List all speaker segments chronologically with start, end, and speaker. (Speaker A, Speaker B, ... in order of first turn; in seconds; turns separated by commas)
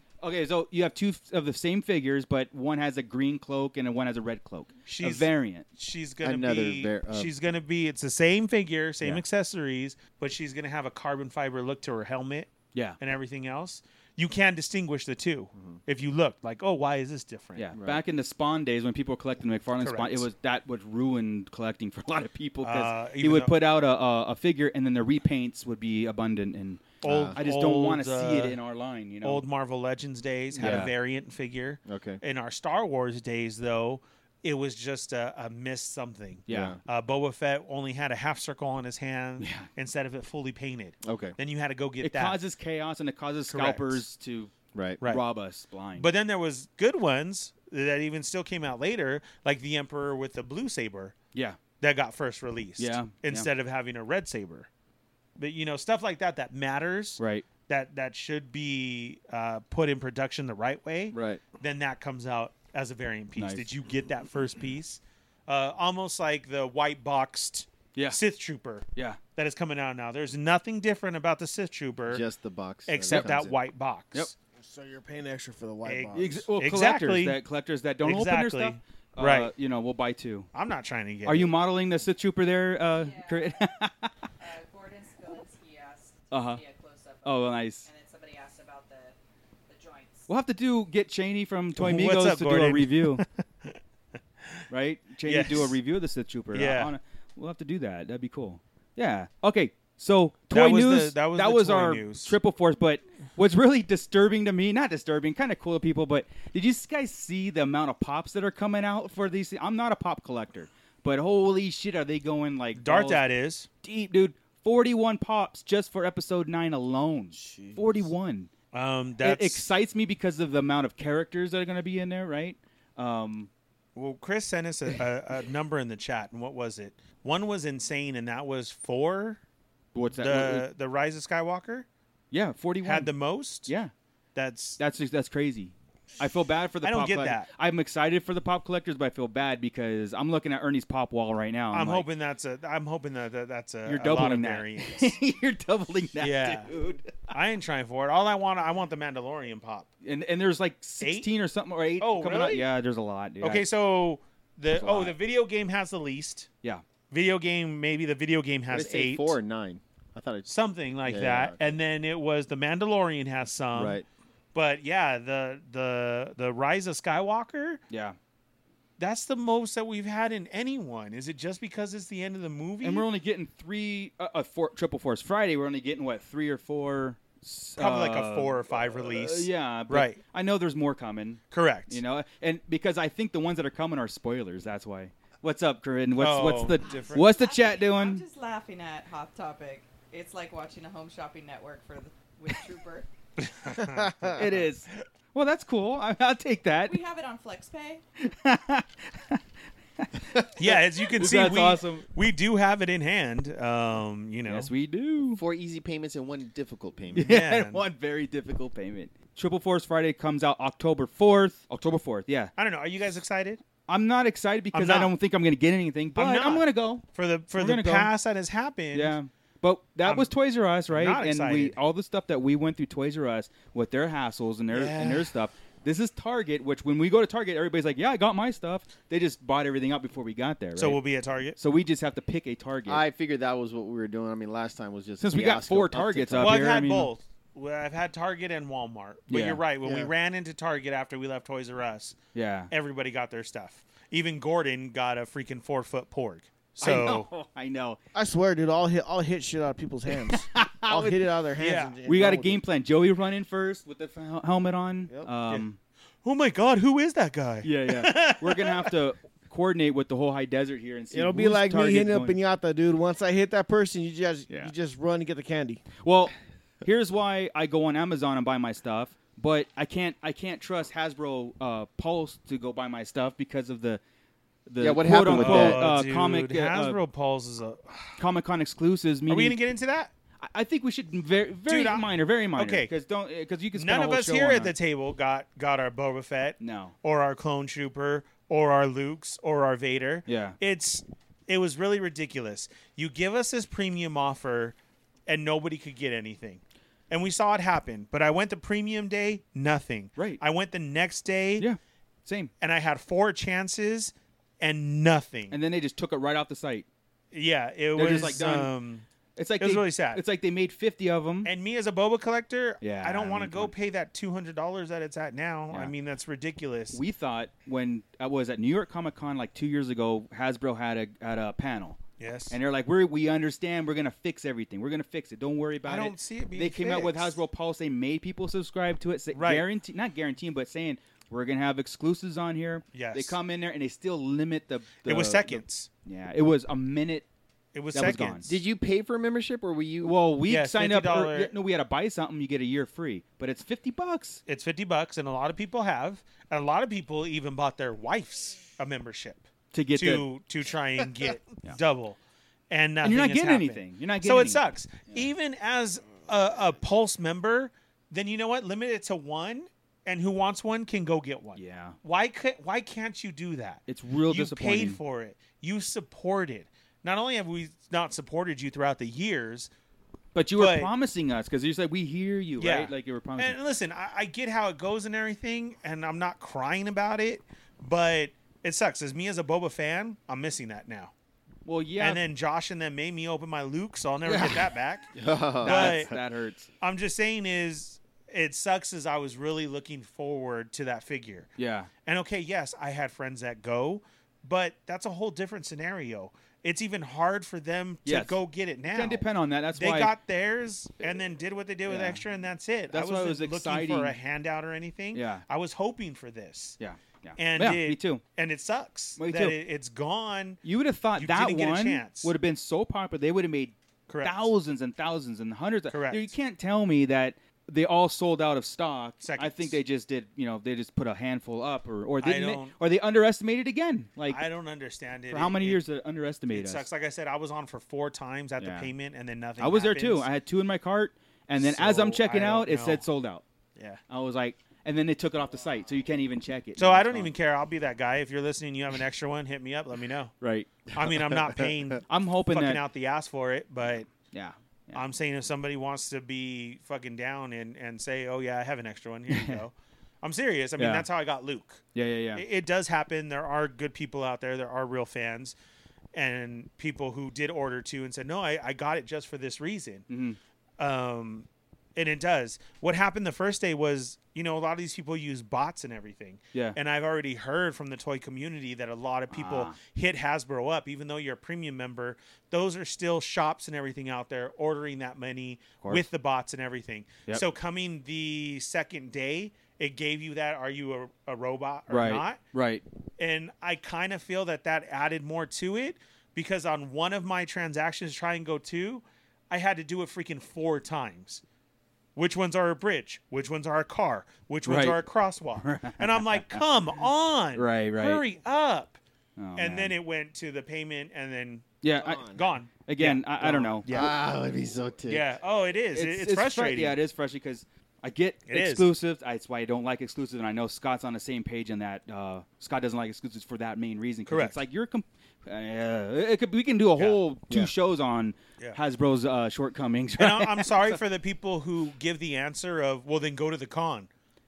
Speaker A: 0.2-5.7, Speaker B: 4.9-12.5, Speaker C: 6.2-7.3, Speaker B: 13.0-17.7, Speaker A: 17.6-29.4, Speaker C: 17.8-18.0, Speaker B: 19.8-20.2, Speaker B: 22.6-23.5, Speaker B: 27.0-28.6, Speaker C: 27.0-27.4, Speaker B: 29.2-42.4, Speaker C: 30.5-30.9, Speaker A: 30.6-30.9, Speaker C: 31.9-32.2, Speaker A: 36.5-36.8, Speaker C: 36.5-36.8, Speaker A: 39.4-39.7, Speaker C: 41.0-41.3, Speaker A: 42.0-46.1, Speaker B: 43.5-44.0, Speaker B: 46.0-51.1, Speaker B: 51.8-54.7, Speaker A: 52.8-53.5, Speaker B: 55.4-72.2, Speaker A: 57.2-57.5, Speaker A: 61.1-61.4, Speaker A: 63.4-63.7, Speaker C: 72.1-73.5, Speaker B: 72.9-74.4, Speaker A: 73.1-73.4, Speaker D: 74.6-76.5, Speaker B: 75.8-77.4, Speaker A: 76.1-80.5, Speaker B: 78.0-79.5, Speaker B: 80.5-81.5, Speaker A: 81.2-84.1, Speaker E: 83.0-83.7, Speaker E: 84.4-89.2, Speaker A: 86.3-86.6, Speaker A: 87.2-87.9, Speaker E: 89.7-90.3, Speaker A: 90.3-93.2, Speaker B: 91.8-93.7, Speaker A: 94.7-113.2, Speaker B: 95.2-95.8, Speaker B: 96.5-96.9, Speaker B: 100.5-102.3, Speaker B: 112.8-113.7, Speaker A: 113.8-118.5, Speaker D: 117.4-118.1, Speaker B: 118.7-119.7, Speaker A: 119.2-123.5, Speaker B: 124.0-129.4, Speaker A: 129.9-130.7, Speaker B: 130.2-131.9, Speaker A: 132.3-133.1, Speaker B: 132.8-133.7, Speaker A: 133.7-133.9, Speaker B: 134.3-134.8, Speaker A: 134.8-142.1, Speaker B: 136.8-137.5, Speaker B: 141.7-145.2, Speaker A: 143.8-147.3, Speaker B: 146.2-146.7, Speaker B: 147.3-149.9, Speaker A: 150.0-153.7, Speaker B: 151.0-151.3, Speaker B: 152.0-152.7, Speaker B: 153.4-156.5, Speaker A: 154.7-155.2, Speaker B: 157.1-159.3, Speaker C: 158.7-160.5, Speaker B: 160.5-164.0, Speaker C: 161.0-161.6, Speaker C: 163.7-164.0, Speaker B: 164.5-167.8, Speaker A: 167.9-168.2, Speaker B: 169.0-173.1, Speaker A: 172.8-188.2, Speaker B: 177.8-180.2, Speaker B: 181.5-182.0, Speaker B: 186.2-187.3, Speaker E: 186.8-193.1, Speaker B: 193.4-194.6, Speaker D: 193.8-194.3, Speaker A: 194.3-197.0, Speaker E: 196.8-198.0, Speaker A: 198.2-199.4, Speaker A: 200.0-202.1, Speaker B: 200.6-204.7, Speaker A: 204.5-205.4, Speaker C: 205.3-207.4, Speaker A: 207.2-212.5, Speaker B: 207.2-207.8, Speaker B: 212.6-213.6, Speaker A: 213.9-217.0, Speaker B: 214.7-215.1, Speaker B: 216.2-219.2, Speaker A: 217.6-218.1, Speaker A: 218.9-231.0, Speaker B: 220.0-220.3, Speaker B: 220.9-221.8, Speaker C: 224.7-225.2, Speaker B: 230.8-231.6, Speaker A: 231.6-233.0, Speaker C: 232.9-236.7, Speaker A: 235.2-237.1, Speaker B: 236.4-242.2, Speaker A: 239.3-239.6, Speaker A: 242.3-242.7, Speaker B: 242.7-247.3, Speaker A: 246.8-248.0, Speaker D: 248.1-252.6, Speaker A: 250.1-251.2, Speaker B: 251.6-252.0, Speaker A: 252.1-255.8, Speaker B: 256.2-258.9, Speaker A: 257.6-262.4, Speaker D: 261.1-265.8, Speaker A: 266.0-274.0, Speaker A: 274.7-277.0, Speaker C: 274.8-275.8, Speaker B: 275.3-278.2, Speaker A: 278.2-279.6, Speaker B: 279.3-280.1, Speaker A: 280.4-284.7, Speaker B: 281.7-282.9, Speaker B: 283.7-301.6, Speaker A: 286.6-286.9, Speaker A: 290.2-290.6, Speaker A: 300.2-300.4, Speaker A: 301.6-302.5, Speaker B: 302.6-305.6, Speaker A: 305.5-306.9, Speaker B: 307.3-309.0, Speaker A: 307.9-308.7, Speaker A: 309.4-311.5, Speaker B: 309.6-310.2, Speaker B: 311.4-317.0, Speaker A: 312.8-313.7, Speaker A: 316.9-322.0, Speaker B: 322.2-322.6, Speaker A: 322.5-337.2, Speaker B: 325.8-327.4, Speaker B: 329.3-329.7, Speaker B: 332.9-333.4, Speaker B: 335.0-335.9, Speaker B: 337.7-338.5, Speaker A: 337.9-338.5, Speaker C: 338.5-340.1, Speaker A: 340.0-344.4, Speaker B: 340.5-341.5, Speaker B: 344.5-352.2, Speaker A: 349.7-350.2, Speaker B: 352.7-369.7, Speaker A: 353.0-354.6, Speaker A: 361.6-362.0, Speaker A: 363.9-365.0, Speaker A: 370.3-373.6, Speaker B: 370.6-370.9, Speaker B: 372.6-381.1, Speaker A: 381.7-382.2, Speaker B: 382.0-385.1, Speaker A: 384.2-384.7, Speaker C: 385.2-386.2, Speaker A: 385.6-386.7, Speaker B: 385.6-386.1, Speaker B: 386.8-391.5, Speaker A: 391.6-391.9, Speaker B: 392.0-406.8, Speaker A: 398.0-400.1, Speaker A: 401.9-402.2, Speaker A: 402.9-404.1, Speaker A: 405.1-405.4, Speaker A: 406.8-408.2, Speaker B: 407.4-410.6, Speaker A: 409.2-409.6, Speaker A: 410.6-424.4, Speaker B: 411.2-412.3, Speaker B: 414.1-414.5, Speaker B: 415.9-416.3, Speaker B: 419.2-419.8, Speaker B: 422.2-422.8, Speaker B: 424.3-425.8, Speaker A: 425.3-426.9, Speaker B: 426.5-430.3, Speaker A: 428.6-428.9, Speaker A: 429.6-433.4, Speaker B: 431.6-433.0, Speaker B: 433.8-434.0, Speaker A: 434.1-437.3, Speaker B: 436.8-440.3, Speaker A: 440.4-440.8, Speaker B: 440.9-444.1, Speaker A: 442.1-442.8, Speaker A: 444.3-445.0, Speaker B: 444.9-451.8, Speaker A: 449.3-449.6, Speaker A: 450.8-451.1, Speaker A: 451.9-452.4, Speaker B: 452.3-455.6, Speaker B: 456.1-460.1, Speaker A: 460.1-460.4, Speaker B: 460.8-482.4, Speaker A: 469.3-469.8, Speaker A: 481.9-482.8, Speaker B: 483.2-491.4, Speaker B: 492.2-499.0, Speaker A: 494.7-495.0, Speaker A: 495.6-496.6, Speaker A: 497.6-498.2, Speaker A: 499.4-499.9, Speaker B: 499.6-504.2, Speaker A: 501.8-502.2, Speaker D: 502.0-502.4, Speaker A: 502.9-503.9, Speaker C: 503.9-505.2, Speaker B: 505.1-507.0, Speaker A: 505.9-521.0, Speaker B: 508.5-508.9, Speaker B: 514.3-514.6, Speaker B: 520.2-524.1